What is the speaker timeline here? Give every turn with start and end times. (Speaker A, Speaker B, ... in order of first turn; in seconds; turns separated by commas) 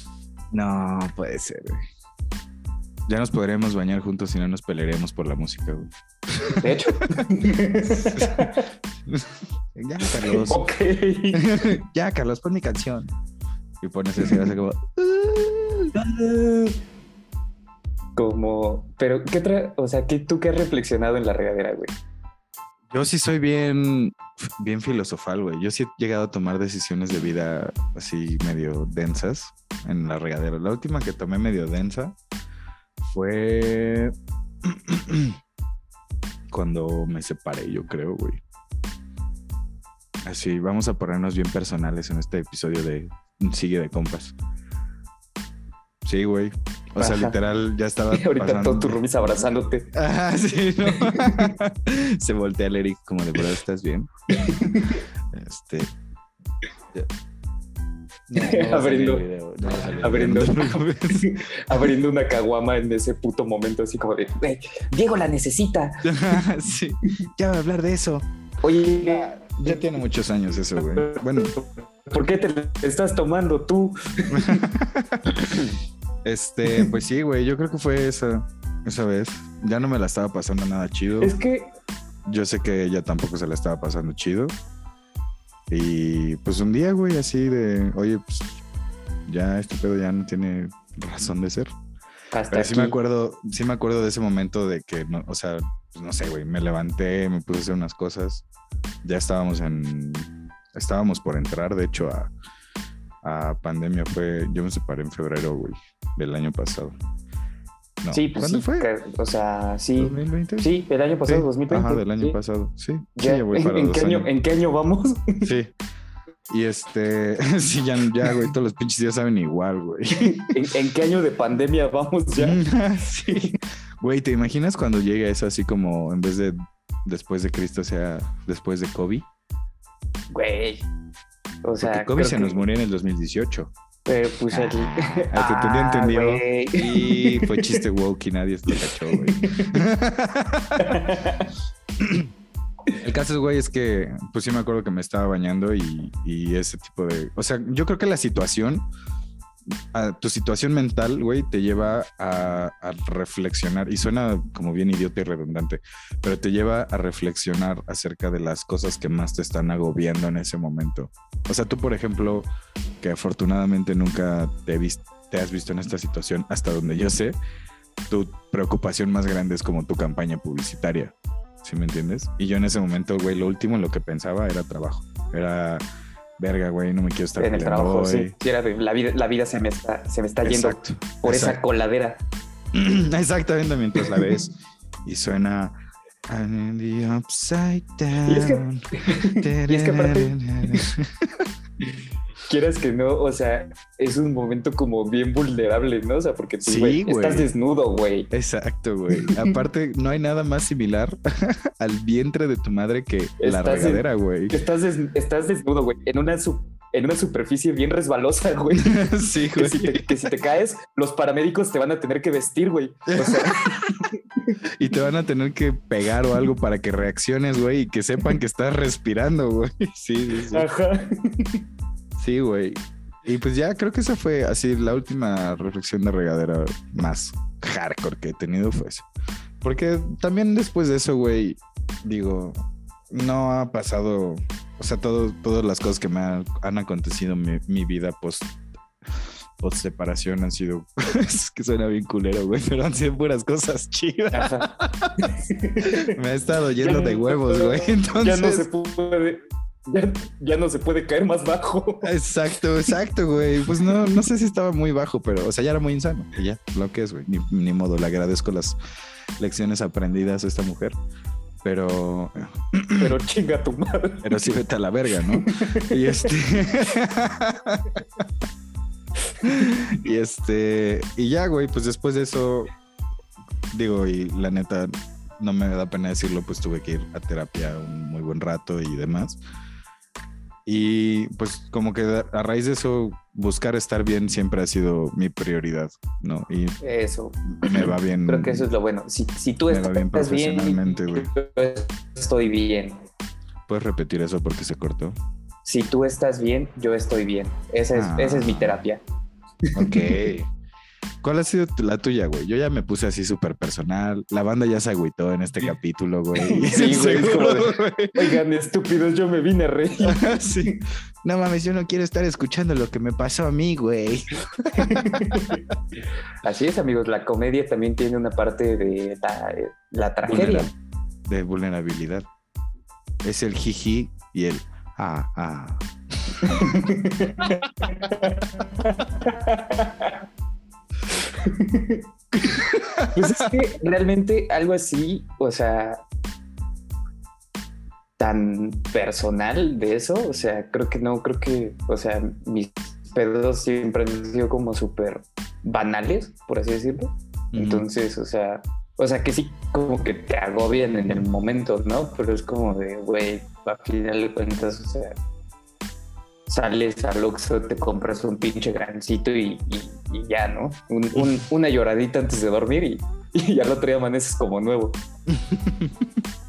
Speaker A: 0.5-1.8, Speaker A: 3.1-7.2, Speaker B: 6.5-8.7, Speaker A: 8.0-8.5, Speaker A: 9.1-10.6, Speaker B: 10.0-11.4, Speaker A: 11.3-13.1, Speaker A: 13.8-16.7, Speaker B: 18.1-21.9, Speaker A: 22.9-32.1, Speaker A: 33.0-35.4, Speaker A: 36.5-38.4, Speaker A: 40.2-44.3, Speaker A: 46.0-49.0, Speaker B: 47.0-47.4, Speaker B: 48.1-49.9, Speaker A: 49.9-55.9, Speaker B: 50.9-51.5, Speaker B: 54.3-55.0, Speaker A: 58.3-62.0, Speaker B: 58.4-66.4, Speaker A: 66.0-68.2, Speaker B: 68.6-69.8, Speaker A: 69.0-71.5, Speaker B: 70.8-74.7, Speaker A: 74.3-75.5, Speaker B: 75.3-75.7, Speaker A: 76.2-81.3, Speaker B: 81.2-81.7, Speaker A: 82.2-84.5, Speaker A: 85.7-88.6, Speaker A: 89.3-91.7, Speaker B: 92.3-93.0, Speaker A: 92.5-98.4, Speaker A: 99.0-102.3, Speaker A: 103.2-107.0, Speaker A: 108.0-108.9, Speaker B: 108.1-112.4, Speaker A: 110.0-110.7, Speaker A: 111.3-114.3, Speaker B: 113.2-115.5, Speaker A: 115.4-115.7, Speaker A: 116.5-120.6, Speaker B: 120.2-122.6, Speaker A: 122.4-129.2, Speaker B: 123.2-123.5, Speaker B: 130.3-130.9, Speaker B: 131.6-132.6, Speaker A: 131.8-133.7, Speaker B: 134.1-137.8, Speaker A: 134.5-141.1, Speaker B: 138.7-139.8, Speaker B: 140.8-141.5, Speaker A: 142.0-142.3, Speaker A: 143.0-148.9, Speaker A: 149.9-162.5, Speaker A: 163.0-167.4, Speaker A: 168.1-175.8, Speaker A: 176.4-178.3, Speaker B: 177.4-182.2, Speaker A: 180.4-181.6, Speaker A: 182.7-185.7, Speaker B: 184.0-184.2, Speaker A: 186.3-191.5, Speaker B: 188.2-190.9, Speaker B: 192.4-198.3, Speaker A: 196.6-197.5, Speaker A: 198.3-204.6, Speaker B: 199.2-199.5, Speaker B: 203.4-214.6, Speaker A: 208.7-210.3, Speaker A: 213.1-214.1, Speaker A: 214.8-220.7, Speaker B: 220.5-221.6, Speaker A: 222.2-229.1, Speaker A: 229.6-232.6, Speaker A: 233.1-238.5, Speaker A: 239.2-245.2, Speaker B: 244.3-244.7, Speaker B: 245.2-246.1, Speaker A: 245.8-248.7, Speaker B: 246.8-252.1, Speaker A: 252.0-258.8, Speaker A: 259.4-260.9, Speaker A: 261.6-263.1, Speaker B: 263.0-264.3, Speaker A: 264.2-268.3, Speaker B: 265.3-266.4, Speaker A: 269.4-272.7, Speaker A: 273.7-279.4, Speaker A: 280.6-286.8, Speaker B: 286.8-293.0, Speaker A: 287.6-288.7, Speaker A: 289.7-291.3, Speaker A: 293.7-295.1, Speaker B: 295.6-299.0, Speaker A: 297.9-298.8, Speaker B: 299.7-300.1, Speaker A: 299.7-300.5, Speaker A: 301.2-308.4, Speaker B: 306.4-310.8, Speaker A: 310.0-315.6, Speaker B: 314.7-315.6, Speaker B: 316.4-320.7, Speaker A: 320.2-320.7, Speaker A: 321.2-322.3, Speaker A: 323.2-326.8, Speaker B: 326.4-330.2, Speaker B: 331.2-332.5, Speaker A: 332.3-333.5, Speaker B: 333.1-336.0, Speaker B: 338.2-355.2, Speaker A: 347.5-347.8, Speaker B: 356.5-365.0, Speaker A: 365.3-366.0